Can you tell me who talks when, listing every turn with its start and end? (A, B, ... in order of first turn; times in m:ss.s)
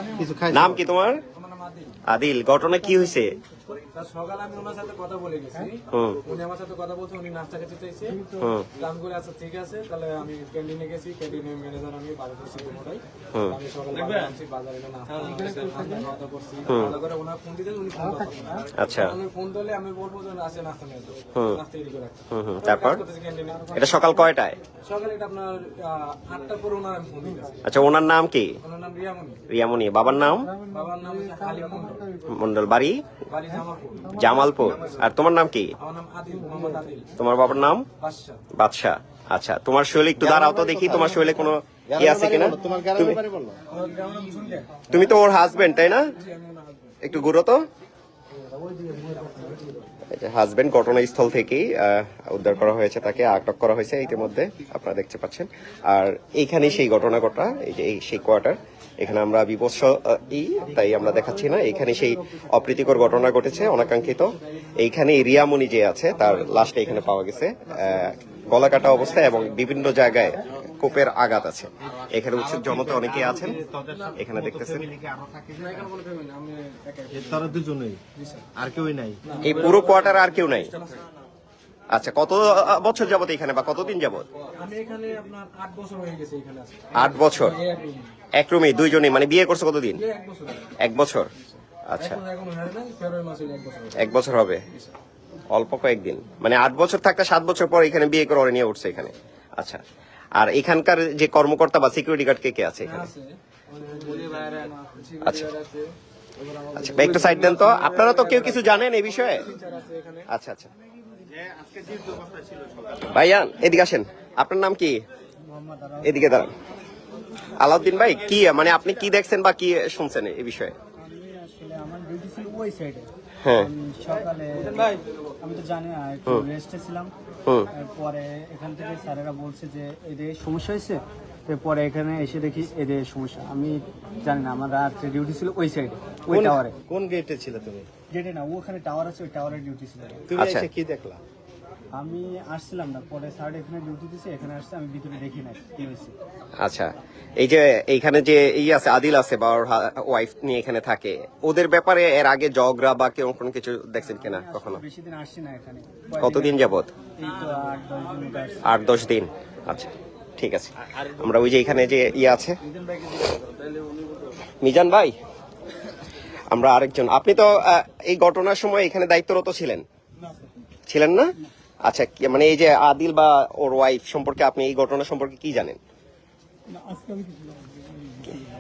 0:00.2-0:00.8 A
0:00.5-0:01.2 B
0:01.3-0:02.0 C
0:02.1-0:03.4 B
0:03.9-0:08.2 C
0:05.9-0:06.2 B
0:08.4-0:08.7 B
0:08.8-0:23.8 C
0:16.7-0:17.0 B
0:18.8-0:19.2 B
0:22.3-0:23.0 B
0:23.8-0:24.6 B
0:24.8-0:27.7 C
0:27.6-0:28.6 B
0:28.6-0:29.4 C
0:29.5-0:30.5 B
0:30.7-0:32.2 C
0:32.3-0:33.0 B
0:33.3-0:34.2 C
0:34.1-0:35.7 B
0:35.8-0:37.1 C
0:37.2-0:37.9 B
0:38.0-0:38.4 C
0:38.5-0:43.2 B
0:40.2-0:43.6 A
0:43.7-0:44.8 C
0:43.7-0:44.7 D
0:44.9-0:46.0 B
0:46.1-0:47.0 C
0:47.0-0:47.6 B
0:48.7-0:49.4 D
0:50.1-1:13.6 B
1:06.1-1:07.1 C
1:08.8-1:09.7 C
1:12.1-1:15.9 A
1:13.8-1:14.2 C
1:14.2-1:14.9 B
1:15.6-1:17.6 C
1:17.1-1:18.0 A
1:18.2-1:18.5 C
1:18.6-1:19.3 A
1:19.2-1:21.0 C
1:19.4-1:20.7 B
1:21.9-1:24.3 B
1:24.5-1:28.1 C
1:26.9-1:27.6 B
1:28.4-1:30.0 B
1:30.0-1:30.8 C
1:30.8-1:31.3 B
1:31.9-1:32.2 B
1:32.0-1:34.1 C
1:34.0-1:34.6 B
1:35.5-1:39.8 B
1:40.4-1:43.1 B
1:42.8-1:50.3 C
1:46.8-1:49.5 B
1:50.3-1:50.7 B
1:51.4-1:53.0 A
1:53.0-1:55.0 B
1:55.5-1:56.5 D
1:56.0-1:56.5 B
1:57.6-2:00.7 B
2:01.0-2:07.1 D
2:03.4-2:03.7 B
2:07.7-2:16.8 D
2:16.3-2:16.5 B
2:16.9-2:17.9 A
2:18.1-2:20.3 D
2:20.3-2:21.2 A
2:20.4-2:20.7 B
2:21.9-2:26.2 D
2:26.6-2:34.8 B
2:34.0-2:36.6 D
2:36.2-2:36.9 B
2:37.2-2:38.8 D
2:38.6-2:42.6 B
2:44.6-2:45.1 B
2:46.5-2:49.8 B
2:50.9-2:51.3 B
2:51.8-2:55.8 B
2:56.7-2:58.5 D